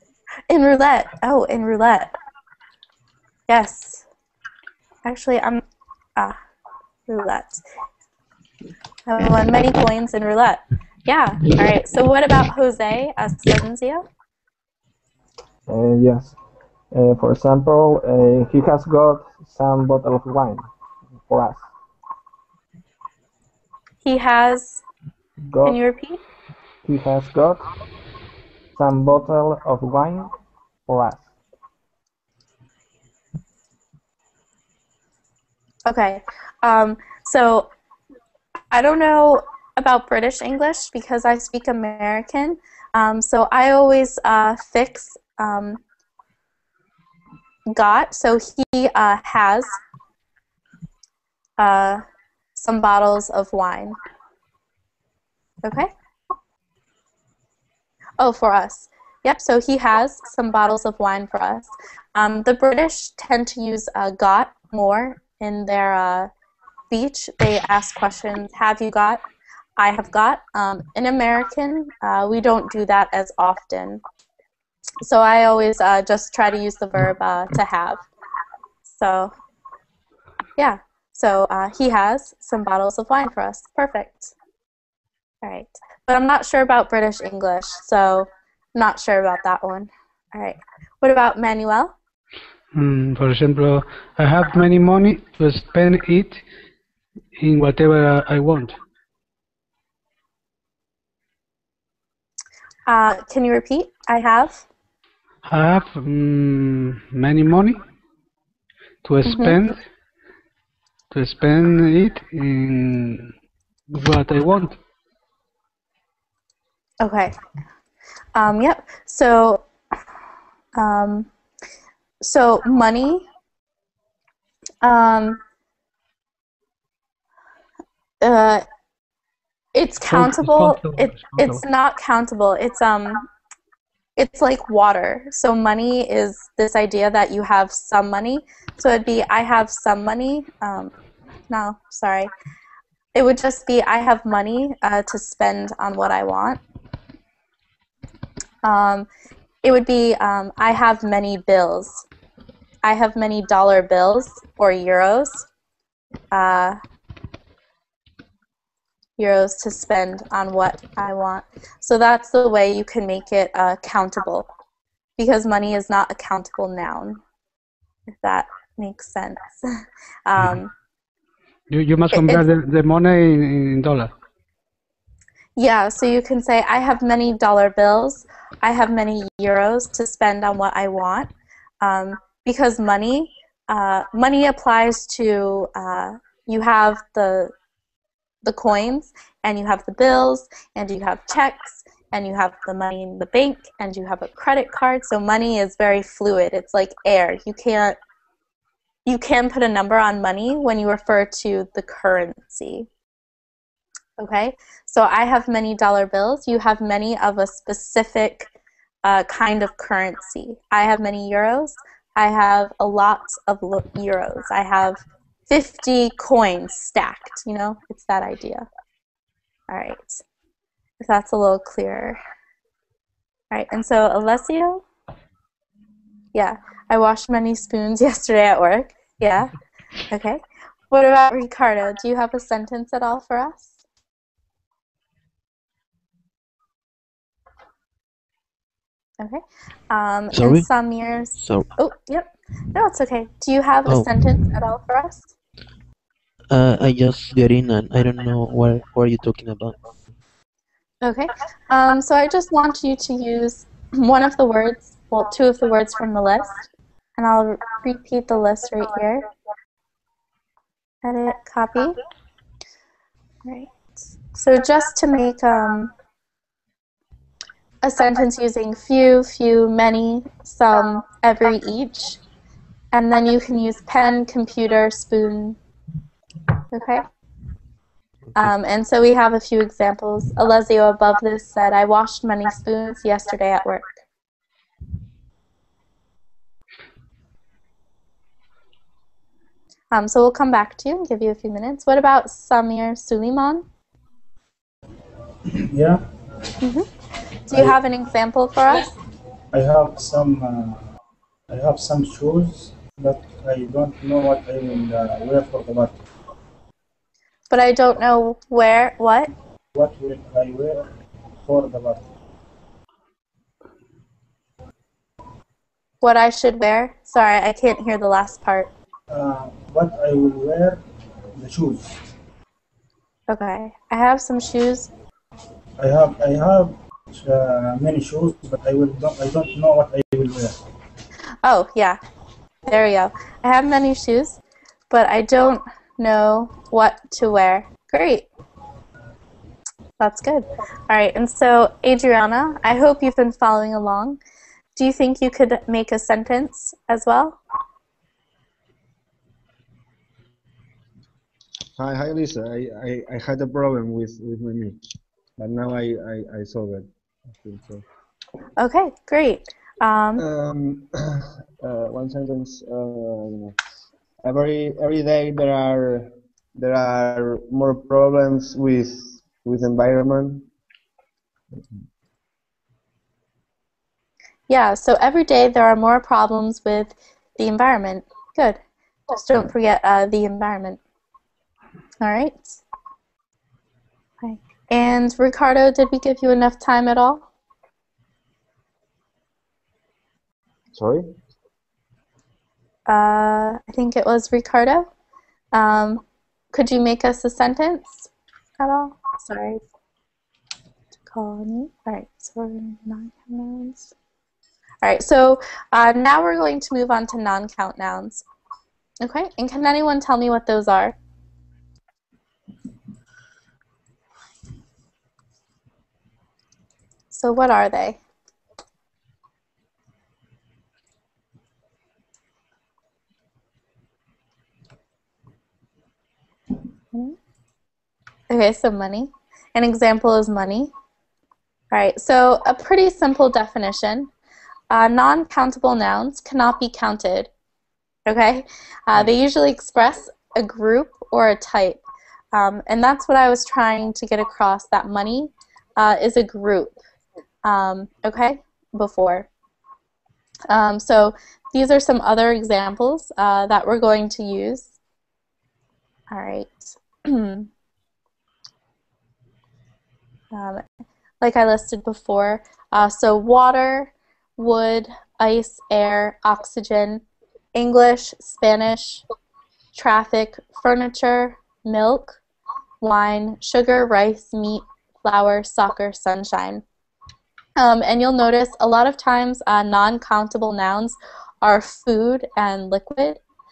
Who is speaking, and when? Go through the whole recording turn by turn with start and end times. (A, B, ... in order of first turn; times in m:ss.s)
0:00.5-0:02.1 A
0:03.5-0:04.0 A
0:05.0-0:05.6 A
0:07.1-0:07.6 A
0:09.0-0:14.0 A
0:15.7-0:16.4 B
0:16.9-0:20.7 B
0:21.3-0:21.7 B
0:24.0-0:24.8 A
0:25.5-0:25.8 B
0:25.6-0:26.2 A
0:26.8-0:27.6 B
0:28.8-0:30.3 B
0:30.9-0:31.3 B
0:35.8-0:37.7 A
0:38.7-0:45.8 A
0:47.7-0:49.8 A
0:51.6-0:52.0 A
0:52.5-0:54.0 A
0:55.6-0:55.9 A
0:58.2-1:06.3 A
1:06.9-1:09.2 A
1:09.8-1:14.0 A
1:15.0-1:18.0 A
1:18.9-1:19.3 A
1:20.6-1:24.3 A
1:25.4-1:31.9 A
1:32.7-1:36.4 C
1:37.4-1:38.8 C
1:42.9-1:44.6 A
1:45.4-1:47.8 C
1:49.0-1:49.8 C
1:49.2-1:49.6 A
1:51.1-1:53.3 C
1:53.9-1:54.8 C
1:57.0-1:57.4 A
1:58.3-1:59.6 A
2:00.8-2:01.3 A
2:02.2-2:03.2 A
2:04.8-2:05.4 A
2:08.2-2:08.6 A
2:09.7-2:13.3 A
2:10.0-2:11.6 C
2:14.2-2:20.9 A
2:21.5-2:22.3 A
2:23.1-2:26.6 A
2:28.6-2:29.1 A
2:29.6-2:32.0 A
2:32.8-2:35.4 A
2:36.3-2:36.8 A
2:39.2-2:44.5 A
2:45.2-2:47.2 A
2:48.2-2:49.7 A
2:50.2-2:50.7 A
2:51.7-2:54.1 C
2:52.1-2:52.4 A
2:55.6-3:01.3 A
3:01.8-3:07.5 A
3:08.4-3:18.0 A
3:19.0-3:22.9 A
3:24.2-3:28.5 A
3:29.0-3:38.7 A
3:39.7-3:40.2 A
3:41.0-3:42.2 A
3:43.5-3:44.8 A
3:46.3-3:49.5 A
3:50.1-3:53.8 A
3:59.2-4:05.3 A
4:00.3-4:00.7 D
4:01.3-4:01.7 D
4:03.8-4:04.2 D
4:06.5-4:09.8 D
4:11.0-4:19.3 A
4:21.0-4:22.0 A
4:23.4-4:23.7 A
4:24.3-4:25.9 A
4:27.8-4:32.2 A
4:32.9-4:35.6 A
4:36.7-4:37.0 A
4:38.3-4:44.0 A
4:49.9-4:53.6 A
4:55.5-4:56.0 E
4:56.6-4:56.9 A
4:57.5-4:58.9 A
4:57.5-4:57.8 E
4:59.5-5:00.8 E
5:01.5-5:06.0 E
5:07.5-5:09.3 A
5:09.7-5:10.9 E
5:11.4-5:12.0 E
5:16.0-5:18.7 A
5:19.1-5:20.8 E
5:21.4-5:21.9 E
5:23.3-5:24.9 A
5:25.8-5:30.5 E
5:31.4-5:32.0 A
5:32.7-5:38.3 A
5:40.0-5:44.2 A
5:44.8-5:47.4 A
5:51.8-5:54.8 F
5:55.4-5:56.9 F
5:57.4-5:57.8 F
5:58.6-6:00.2 A
6:00.2-6:03.5 F
6:04.2-6:10.5 F
6:14.5-6:20.8 A
6:22.0-6:22.6 A
6:24.2-6:27.2 A
6:30.7-6:31.0 F
6:32.9-6:34.9 A
6:35.5-6:36.0 A
6:36.5-6:38.1 A
6:38.6-6:39.6 A
6:41.1-6:43.9 A
6:44.8-6:48.2 A
6:49.0-6:51.0 A
6:57.1-6:58.0 A
7:08.3-7:10.7 A
7:11.7-7:14.1 A
7:14.7-7:17.3 A
7:18.0-7:21.8 A
7:22.3-7:26.8 A
7:27.4-7:29.3 A
7:30.5-7:34.7 A
7:36.1-7:37.5 A
7:40.3-7:40.6 A
7:41.2-7:49.0 A
7:49.7-7:52.2 A
7:52.8-7:56.6 A
7:57.6-8:03.2 A